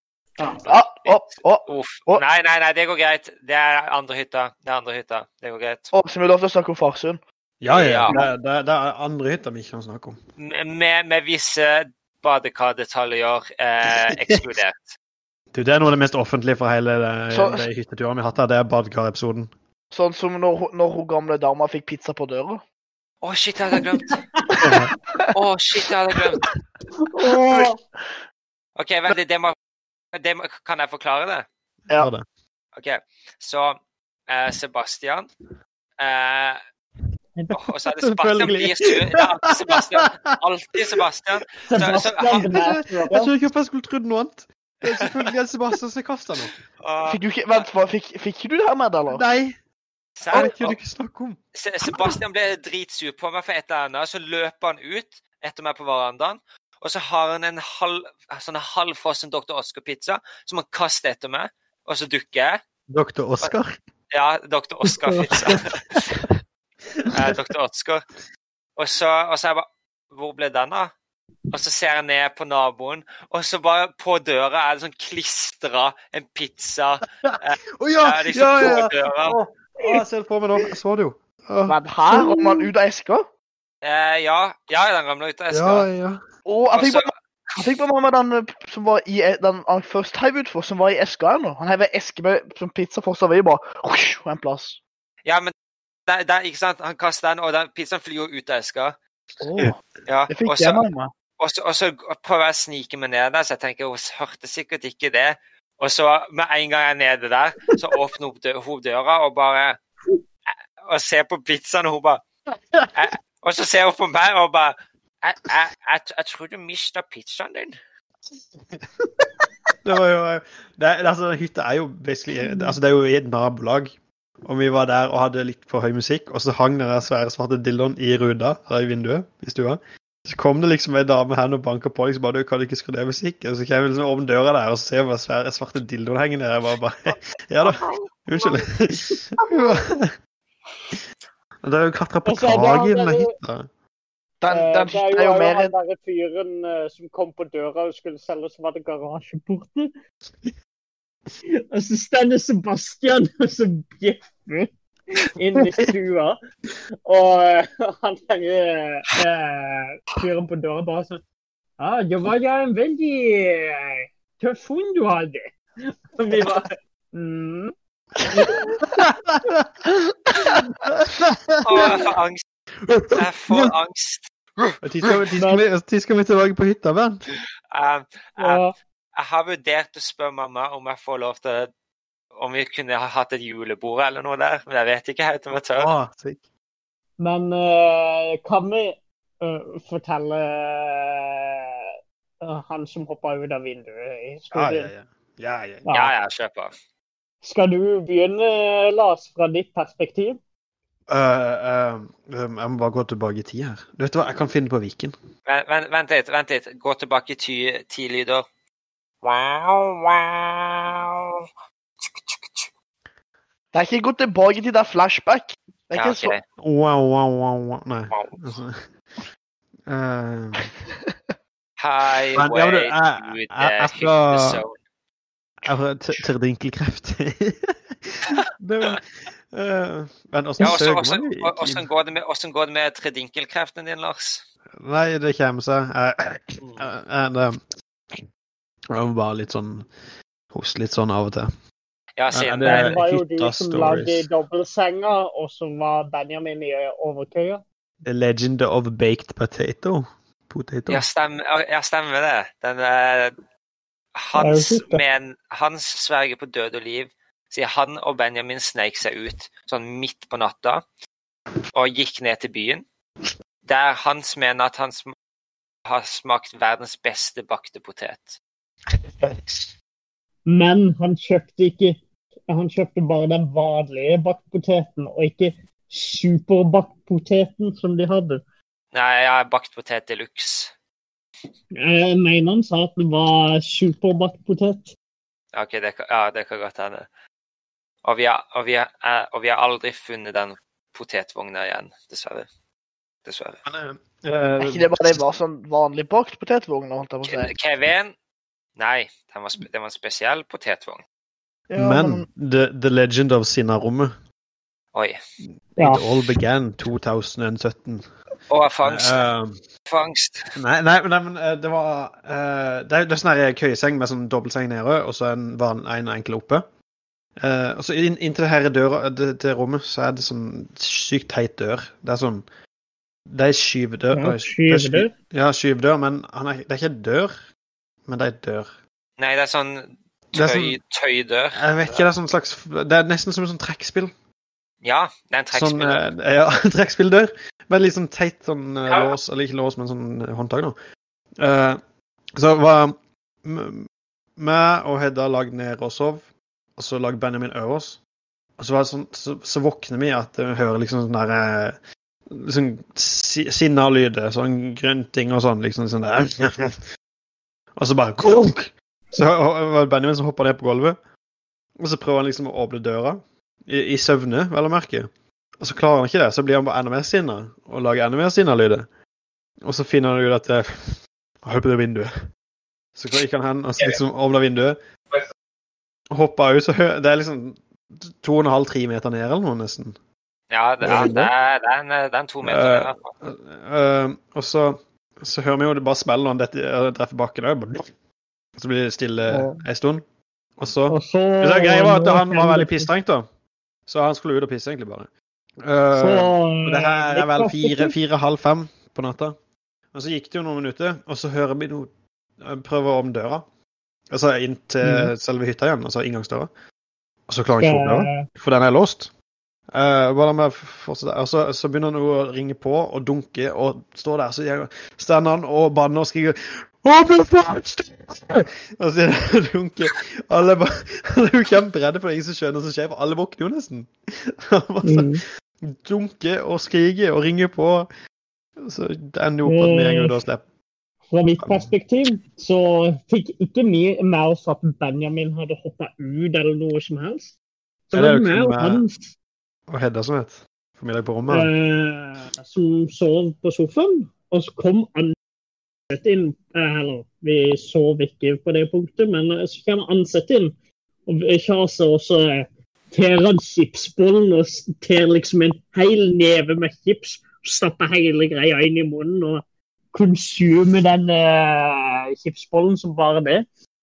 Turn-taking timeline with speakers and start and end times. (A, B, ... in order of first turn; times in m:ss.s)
0:00.4-0:00.7 A
0:00.7-0:02.2 B
0:01.0-0:05.9 C
0:05.9-0:07.2 B
0:07.6-0:10.2 D
0:07.7-0:08.2 C
0:10.4-0:14.9 C
0:14.2-0:14.5 D
0:15.5-0:19.5 D
0:17.3-0:17.6 B
0:19.9-0:22.6 B
0:23.2-0:24.2 C
0:23.7-0:24.2 A
0:24.6-0:24.9 D
0:25.3-0:26.4 C
0:27.1-0:27.8 A
0:27.3-0:28.1 B
0:28.8-0:29.5 C
0:30.1-0:31.4 C
0:31.9-0:32.2 D
0:32.8-0:35.3 C
0:36.0-0:36.6 C
0:37.5-0:42.5 C
0:37.8-0:40.4 D
0:41.6-0:43.3 A
0:42.4-0:46.5 D
0:44.9-0:45.3 C
0:46.8-0:47.7 C
0:47.0-0:49.2 B
0:49.1-0:49.6 D
0:50.2-0:50.8 C
0:50.3-0:51.4 D
0:51.5-1:02.6 C
1:02.9-1:03.8 D
1:04.1-1:06.1 C
1:04.9-1:05.2 A
1:07.0-1:07.4 D
1:07.1-1:08.0 C
1:08.8-1:10.9 C
1:11.5-1:19.4 C
1:17.2-1:21.8 D
1:21.6-1:23.3 B
1:22.1-1:22.7 A
1:23.8-1:25.9 C
1:25.5-1:26.2 D
1:26.4-1:34.8 B
1:26.7-1:27.1 C
1:35.2-1:35.5 C
1:36.1-1:39.0 C
1:39.4-1:39.8 B
1:40.1-1:40.8 C
1:40.3-1:41.1 B
1:41.4-1:49.8 C
1:50.8-1:52.2 C
1:52.9-1:57.7 C
1:59.8-2:20.1 D
2:17.6-2:18.6 A
2:19.1-2:19.7 A
2:21.6-2:23.7 D
2:22.2-2:23.3 A
2:24.4-2:25.7 B
2:24.5-2:29.9 A
2:31.7-2:34.7 A
2:35.2-2:36.4 A
2:37.0-2:41.2 A
2:41.8-2:47.7 A
2:48.3-2:48.8 A
2:48.8-2:49.7 D
2:50.1-2:50.6 B
2:50.6-2:52.1 D
2:51.6-2:52.4 C
2:52.8-2:53.7 D
2:53.1-2:54.3 C
2:54.8-2:57.2 D
2:55.4-2:55.6 A
2:57.7-2:58.6 C
2:58.4-2:58.7 A
2:59.2-3:01.7 C
3:02.4-3:05.9 C
3:05.7-3:06.4 D
3:07.2-3:11.6 A
3:12.4-3:14.9 A
3:14.5-3:15.8 D
3:15.8-3:16.1 A
3:15.9-3:16.7 C
3:17.4-3:20.4 A
3:21.1-3:25.1 D
3:25.5-3:28.4 C
3:29.2-3:30.5 C
3:33.7-3:36.3 B
3:36.0-3:36.4 C
3:36.6-3:38.8 D
3:38.1-3:38.4 C
3:39.9-3:40.7 D
3:40.8-3:41.1 B
3:41.8-3:44.7 C
3:42.4-3:44.6 D
3:45.6-3:51.9 D
3:48.3-3:49.0 C
3:50.6-3:54.4 C
3:54.8-3:57.6 D
3:58.9-3:59.9 D
4:00.5-4:01.5 D
4:02.2-4:03.0 C
4:02.3-4:04.3 D
4:02.6-4:07.6 A
4:08.0-4:11.0 D
4:10.9-4:13.3 C
4:14.1-4:20.8 C
4:14.4-4:15.0 A
4:21.7-4:22.8 C
4:23.6-4:25.1 C
4:25.8-4:28.4 C
4:29.2-4:29.7 D
4:30.4-4:38.4 A
4:38.9-4:40.7 C
4:41.7-4:44.9 A
4:45.5-4:47.1 C
4:48.0-4:52.5 C
4:53.2-4:53.6 C
4:53.6-4:55.2 D
4:54.6-4:57.5 B
4:57.2-4:58.1 C
4:58.8-5:01.0 C
5:01.7-5:02.2 B
5:01.7-5:04.1 D
5:05.8-5:06.0 A
5:05.8-5:08.0 D
5:08.5-5:09.2 C
5:08.8-5:09.6 D
5:09.9-5:10.5 C
5:10.5-5:16.6 D
5:17.4-5:22.4 D
5:23.3-5:27.3 D
5:24.1-5:25.1 A
5:28.1-5:28.7 D
5:29.2-5:32.1 C
5:30.3-5:30.8 D
5:31.5-5:34.1 D
5:34.8-5:36.0 C
5:35.5-5:40.7 D
5:41.4-5:41.8 D
5:42.4-5:46.2 D
5:46.8-5:48.0 D
5:48.6-5:51.8 D
5:52.3-5:56.7 D
5:57.8-6:01.0 D
6:01.8-6:05.1 D
6:05.6-6:08.9 D
6:09.6-6:12.1 D
6:13.0-6:14.8 D
6:16.1-6:20.0 D
6:20.5-6:23.1 C
6:20.8-6:21.3 D
6:22.4-6:27.9 D
6:28.6-6:30.0 D
6:29.3-6:29.6 A
6:30.6-6:33.3 D
6:30.9-6:32.9 A
6:33.9-6:35.1 D
6:35.6-6:39.3 D
6:35.9-6:37.9 A
6:39.9-6:43.4 D
6:44.1-6:46.5 D
6:44.8-6:45.1 A
6:47.3-6:49.1 D
6:47.6-6:48.3 A
6:49.7-7:07.9 D
7:04.8-7:05.2 A
7:08.6-7:10.4 D
7:09.4-7:10.2 A
7:11.1-7:17.3 A
7:11.4-7:11.7 D
7:17.9-7:19.1 A
7:17.9-7:18.8 D
7:19.7-7:21.5 D
7:21.3-7:25.2 A
7:25.9-7:30.5 A
7:31.0-7:43.4 A